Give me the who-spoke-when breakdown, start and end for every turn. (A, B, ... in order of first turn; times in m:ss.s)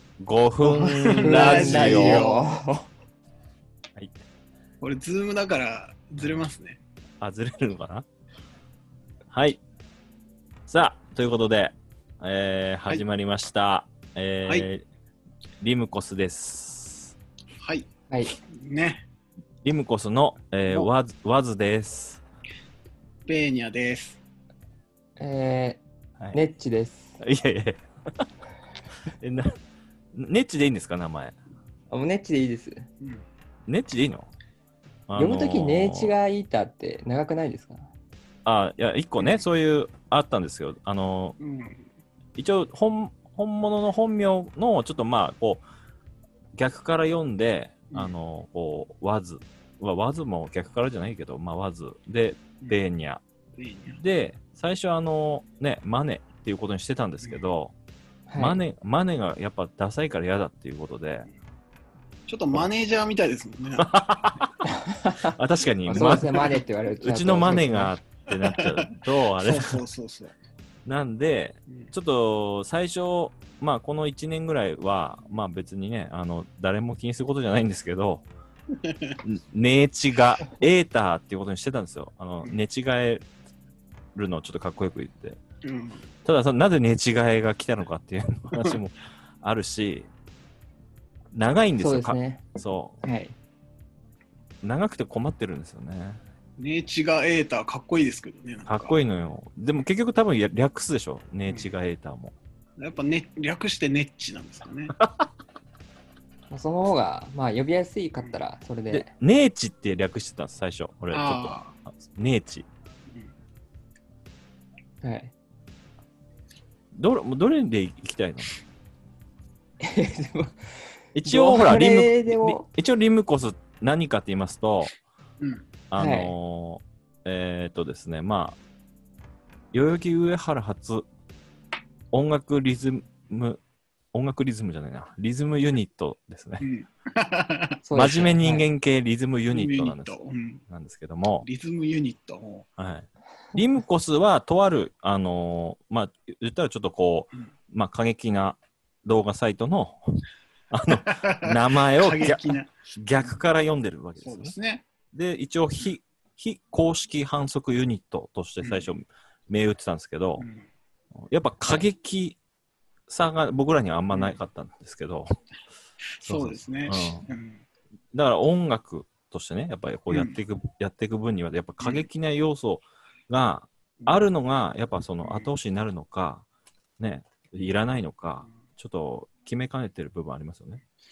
0:00.2-0:02.3 A
0:00.6-0:02.9 B
0:00.8-0:02.5 C
0:04.8-0:06.8 C
0:07.2-0:08.0 A
0:09.3-0:09.6 A
0:10.7-0:14.8 A
0:15.6-0:17.2 A
0:17.6-0:17.9 C
0:18.5-0:19.0 C
0:19.6-0:22.2 A
0:23.3-0:24.2 C
0:25.2-0:25.8 B
0:26.3-0:27.2 B
0:27.2-0:28.3 A
0:29.2-0:29.5 A
0:30.1-0:31.4 A
0:31.9-0:32.8 B
0:33.7-0:34.3 A
0:35.1-0:36.2 A
0:35.2-0:37.9 B
0:38.4-0:41.4 A
0:39.2-0:39.4 C
0:41.4-0:41.9 C
0:42.4-0:45.6 A
0:46.6-0:53.2 A
0:53.6-0:54.0 C
0:53.9-0:57.7 A
0:58.3-0:58.6 B
0:58.4-1:01.3 A
1:02.3-1:03.9 C
1:03.8-1:04.4 A
1:05.3-1:09.8 A
1:05.9-1:07.9 B
1:09.4-1:10.3 C
1:10.8-1:18.3 A
1:18.8-1:19.2 C
1:19.2-1:23.3 A
1:24.2-1:25.4 A
1:25.6-1:26.1 C
1:26.2-1:30.1 A
1:31.3-1:33.0 A
1:31.8-1:32.4 B
1:33.0-1:33.4 B
1:34.6-1:36.2 A
1:36.6-1:39.0 C
1:38.7-1:42.4 A
1:42.8-1:44.9 C
1:45.0-1:45.3 A
1:46.5-1:49.1 B
1:48.9-1:52.7 A
1:51.1-1:51.8 C
1:55.0-1:55.3 B
1:56.9-1:58.6 A
1:59.8-2:00.6 B
2:01.2-2:04.9 A
2:01.2-2:02.7 B
2:05.4-2:05.7 C
2:05.9-2:08.6 A
2:06.0-2:06.3 B
2:09.7-2:11.1 A
2:12.1-2:13.6 A
2:14.1-2:16.6 A
2:16.6-2:17.8 C
2:17.8-2:18.7 B
2:17.9-2:20.2 A
2:19.5-2:20.6 C
2:20.7-2:21.5 A
2:21.4-2:22.7 C
2:22.8-2:34.5 A
2:31.0-2:33.4 C
2:34.2-2:34.9 C
2:35.1-2:40.4 A
2:38.6-2:38.9 C
2:40.4-2:40.7 C
2:41.3-2:42.4 A
2:43.1-2:45.3 A
2:44.1-2:44.4 C
2:46.2-2:47.6 C
2:46.2-2:47.3 A
2:48.1-2:56.5 A
2:50.1-2:50.4 C
2:51.8-2:52.1 C
2:55.2-2:55.5 C
2:57.0-3:00.8 A